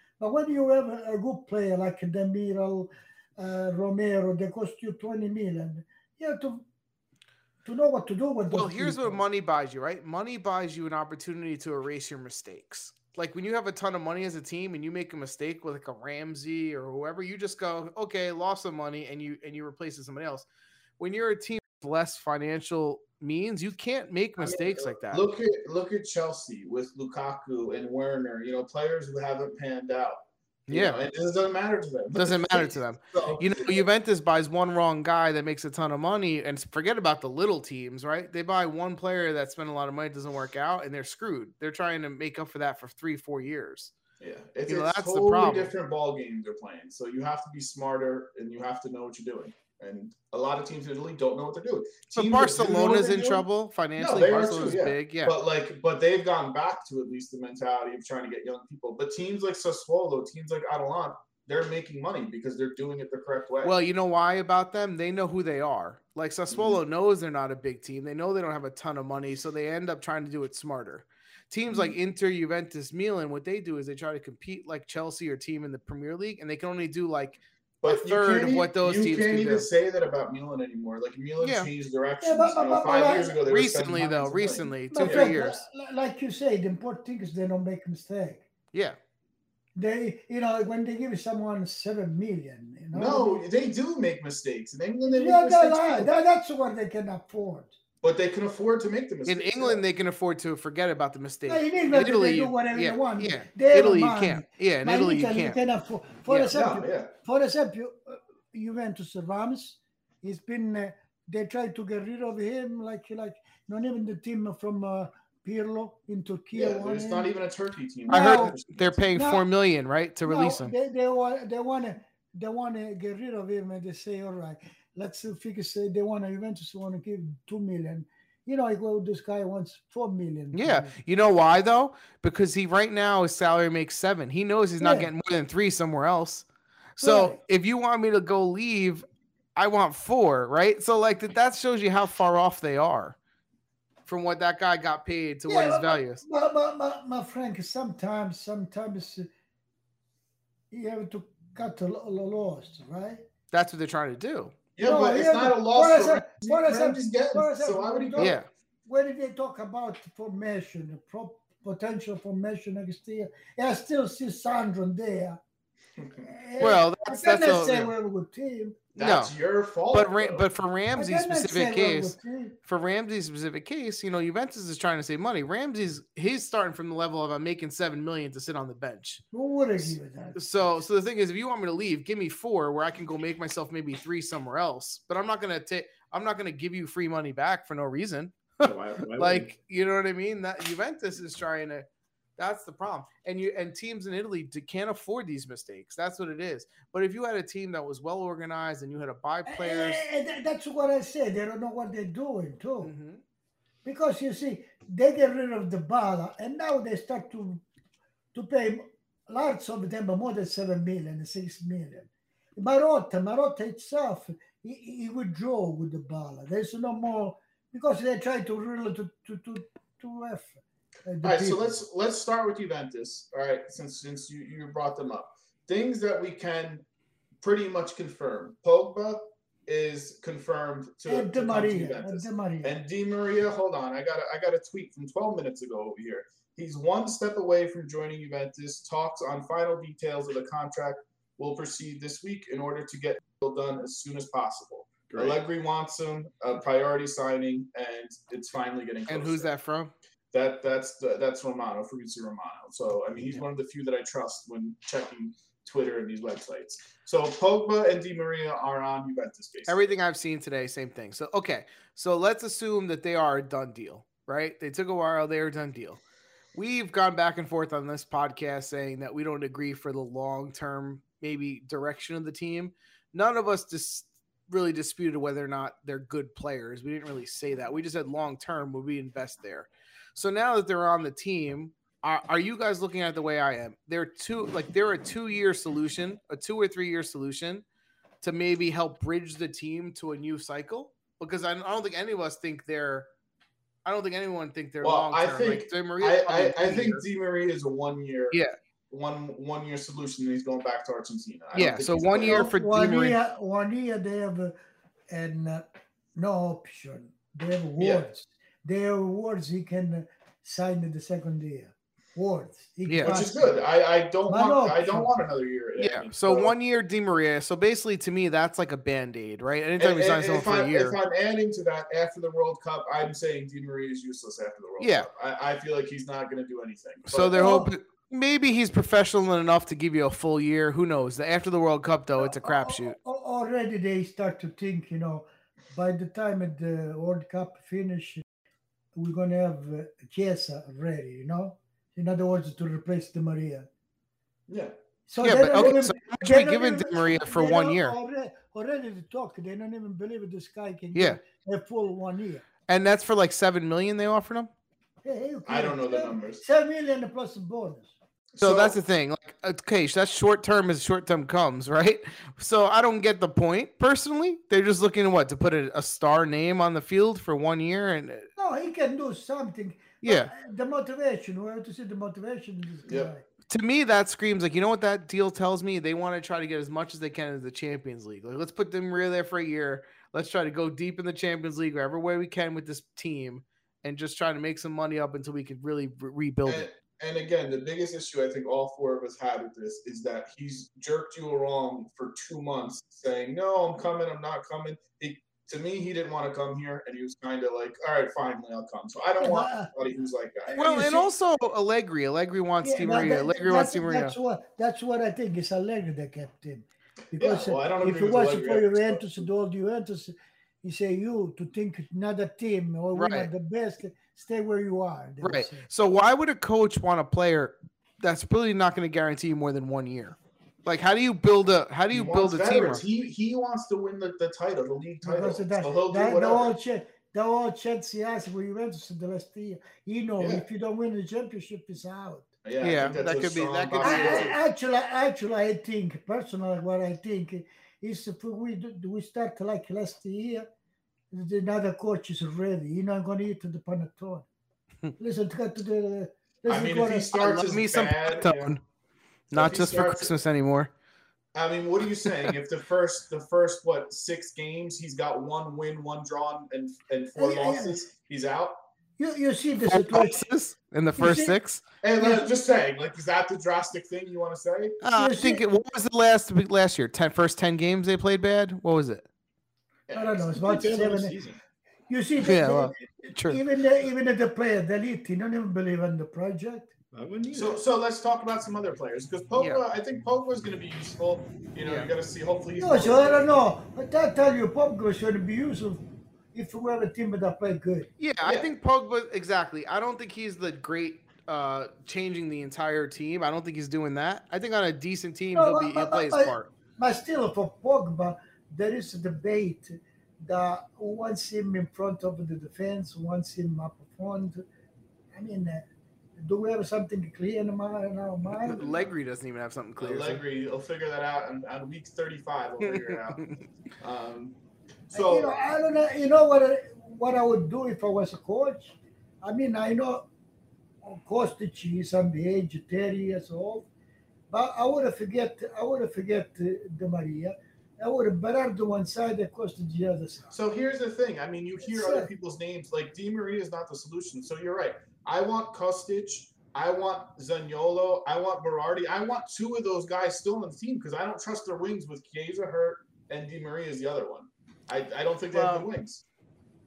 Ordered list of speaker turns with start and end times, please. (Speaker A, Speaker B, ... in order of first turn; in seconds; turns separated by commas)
Speaker A: 0.2-6.6, Speaker A: 7.6-9.2, Speaker B: 8.5-20.4, Speaker B: 21.0-25.3, Speaker C: 24.4-33.9, Speaker B: 30.7-31.0, Speaker B: 32.1-43.9, Speaker C: 44.2-53.4, Speaker B: 44.7-45.7, Speaker B: 52.1-55.4, Speaker C: 54.0-63.8, Speaker B: 63.6-79.7, Speaker C: 66.5-66.8, Speaker C: 71.7-71.9, Speaker C: 77.8-85.3, Speaker B: 81.4-81.7, Speaker A: 82.2-83.4, Speaker B: 83.4-85.6, Speaker A: 84.9-88.5, Speaker A: 89.8-93.4, Speaker C: 92.9-96.1, Speaker A: 95.1-97.8, Speaker C: 98.0-99.8, Speaker B: 99.2-105.6, Speaker A: 101.5-117.3, Speaker C: 106.5-107.1, Speaker C: 116.5-119.1, Speaker B: 118.1-120.7, Speaker A: 118.1-118.6, Speaker A: 119.1-119.4, Speaker A: 120.2-130.9, Speaker B: 130.5-136.4, Speaker A: 134.8-135.1, Speaker A: 137.0-137.4, Speaker B: 137.0-139.0, Speaker B: 139.6-143.2, Speaker B: 144.1-146.2, Speaker A: 145.5-149.3, Speaker A: 150.7-153.2, Speaker B: 153.5-154.6, Speaker C: 154.8-158.4, Speaker A: 154.8-165.4, Speaker B: 158.2-158.5, Speaker C: 166.0-166.2, Speaker A: 166.2-168.8, Speaker B: 166.6-167.9, Speaker B: 168.9-169.3, Speaker C: 169.0-170.5, Speaker B: 169.9-172.1, Speaker A: 170.9-172.6, Speaker B: 172.7-179.2, Speaker A: 179.3-180.7, Speaker B: 180.4-191.8, Speaker D: 188.6-189.5, Speaker B: 192.4-200.0, Speaker A: 199.5-202.9, Speaker B: 202.8-203.2, Speaker A: 203.8-207.6, Speaker A: 208.3-221.8, Speaker C: 221.2-226.8, Speaker C: 227.4-249.5, Speaker A: 231.1-232.8, Speaker D: 245.1-245.4, Speaker B: 249.1-249.9, Speaker C: 250.3-259.9, Speaker B: 259.7-266.0, Speaker B: 266.5-287.6, Speaker B: 288.2-293.1, Speaker B: 293.9-297.0, Speaker C: 294.8-302.5, Speaker B: 301.5-303.2, Speaker A: 302.2-304.5, Speaker A: 305.1-313.5, Speaker C: 307.8-308.1, Speaker B: 312.9-313.2, Speaker C: 313.0-316.5, Speaker A: 314.3-315.1, Speaker B: 315.8-321.0, Speaker C: 319.8-327.5, Speaker B: 324.8-325.1, Speaker B: 327.1-333.0, Speaker A: 327.3-327.7, Speaker A: 332.2-338.2, Speaker A: 338.9-343.7, Speaker C: 344.5-344.8, Speaker A: 345.1-352.4, Speaker B: 345.2-347.9, Speaker B: 350.9-351.2, Speaker B: 352.7-354.5, Speaker A: 355.0-357.9, Speaker C: 355.5-356.4, Speaker C: 358.3-358.8, Speaker B: 358.4-368.3, Speaker A: 368.4-373.2, Speaker B: 370.0-370.3, Speaker C: 372.9-373.1, Speaker B: 373.5-386.7, Speaker C: 386.5-400.6, Speaker A: 399.2-399.7, Speaker A: 400.5-401.1, Speaker B: 400.6-404.1, Speaker A: 402.6-415.7, Speaker C: 407.2-409.2, Speaker B: 412.9-413.3, Speaker B: 415.2-422.8, Speaker C: 421.9-426.5, Speaker A: 425.0-432.3, Speaker C: 430.2-430.4, Speaker C: 432.4-434.4, Speaker B: 432.6-434.4, Speaker A: 433.8-440.5, Speaker A: 441.1-444.2, Speaker A: 445.0-447.1, Speaker C: 446.5-448.5, Speaker B: 447.1-448.6, Speaker B: 449.3-450.7, Speaker C: 449.3-450.1, Speaker C: 451.4-458.6, Speaker A: 457.1-457.8, Speaker A: 459.0-460.2, Speaker B: 459.7-461.6, Speaker A: 461.0-461.4, Speaker C: 461.8-464.8, Speaker A: 462.0-462.3, Speaker B: 464.8-469.1, Speaker A: 464.9-465.4, Speaker C: 469.9-470.2, Speaker A: 469.9-471.1, Speaker D: 470.2-471.4, Speaker A: 471.9-476.7, Speaker B: 472.2-473.4, Speaker D: 476.9-477.6, Speaker C: 477.3-483.3, Speaker B: 479.4-479.6, Speaker B: 481.6-481.9, Speaker A: 482.6-485.8, Speaker A: 486.3-487.9, Speaker B: 488.0-496.5, Speaker C: 488.2-488.5, Speaker A: 495.4-504.4, Speaker A: 505.1-505.6, Speaker A: 506.2-508.6, Speaker B: 508.4-510.2, Speaker C: 508.5-508.9, Speaker C: 509.8-513.3, Speaker B: 512.6-513.4, Speaker C: 513.8-514.4, Speaker C: 514.9-515.4, Speaker A: 514.9-520.1, Speaker A: 520.8-523.7, Speaker A: 524.3-530.3, Speaker C: 530.3-546.0, Speaker A: 531.6-532.1, Speaker B: 545.3-545.7